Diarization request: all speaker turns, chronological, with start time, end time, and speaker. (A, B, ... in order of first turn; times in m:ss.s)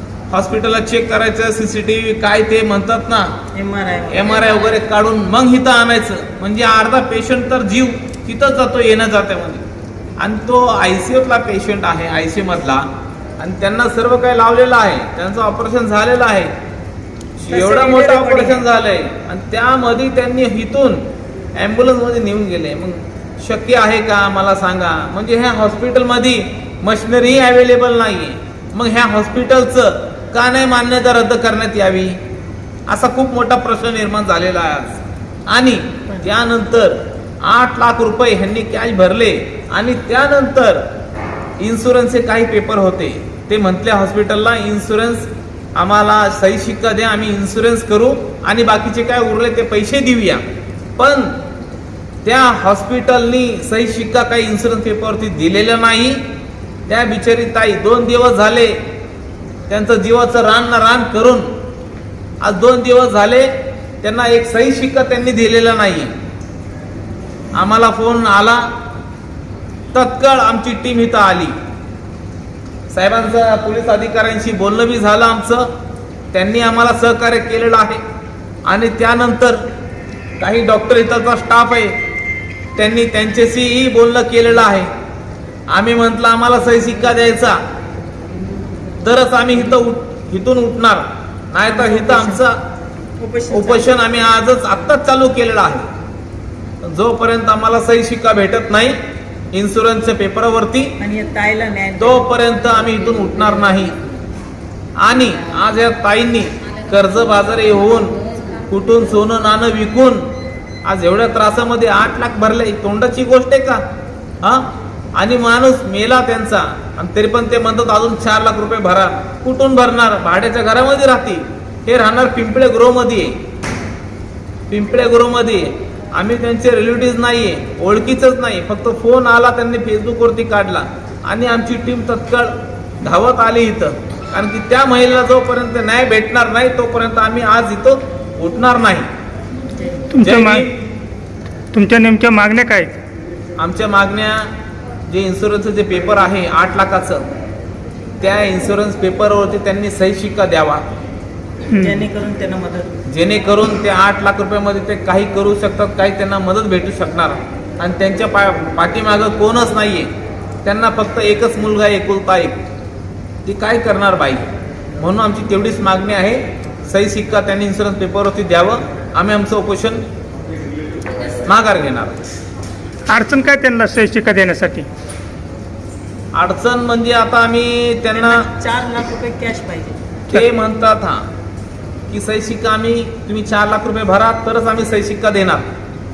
0:00.3-0:03.4 A
0:03.5-0:04.6 B
0:04.1-0:09.6 A
0:10.2-0:16.5 A
0:17.4-0:32.2 A
0:17.5-0:18.7 B
0:32.9-0:40.9 A
0:41.6-0:50.4 A
0:51.0-0:51.4 A
0:52.2-0:56.2 A
0:56.9-0:58.8 A
0:59.7-1:01.5 A
1:02.4-1:06.1 A
1:07.5-1:08.7 A
1:09.9-1:11.5 A
1:12.9-1:15.7 A
1:16.3-1:18.0 A
1:18.6-1:19.6 A
1:20.4-1:22.0 A
1:22.8-1:24.9 A
1:25.7-1:27.6 A
1:29.0-1:32.6 A
1:31.7-1:32.4 B
1:33.2-1:33.9 B
1:33.5-1:35.8 A
1:36.8-1:39.0 A
1:39.5-1:41.0 A
1:41.0-1:42.3 B
1:42.0-1:44.0 A
1:45.0-1:50.3 A
1:50.8-1:53.8 A
1:54.4-2:03.4 A
2:04.7-2:19.1 A
2:20.1-2:20.7 C
2:20.2-2:20.7 A
2:21.7-2:23.0 C
2:23.6-2:24.5 A
2:25.1-2:27.3 A
2:28.2-2:30.8 A
2:31.7-2:32.0 C
2:31.8-2:32.9 B
2:33.1-2:40.1 A
2:40.6-2:42.6 A
2:43.4-2:44.5 A
2:45.0-2:50.0 A
2:51.4-2:52.3 A
2:53.1-2:54.9 C
2:56.3-2:58.4 A
2:58.1-3:00.0 B
3:00.3-3:01.3 A
3:02.1-3:05.6 A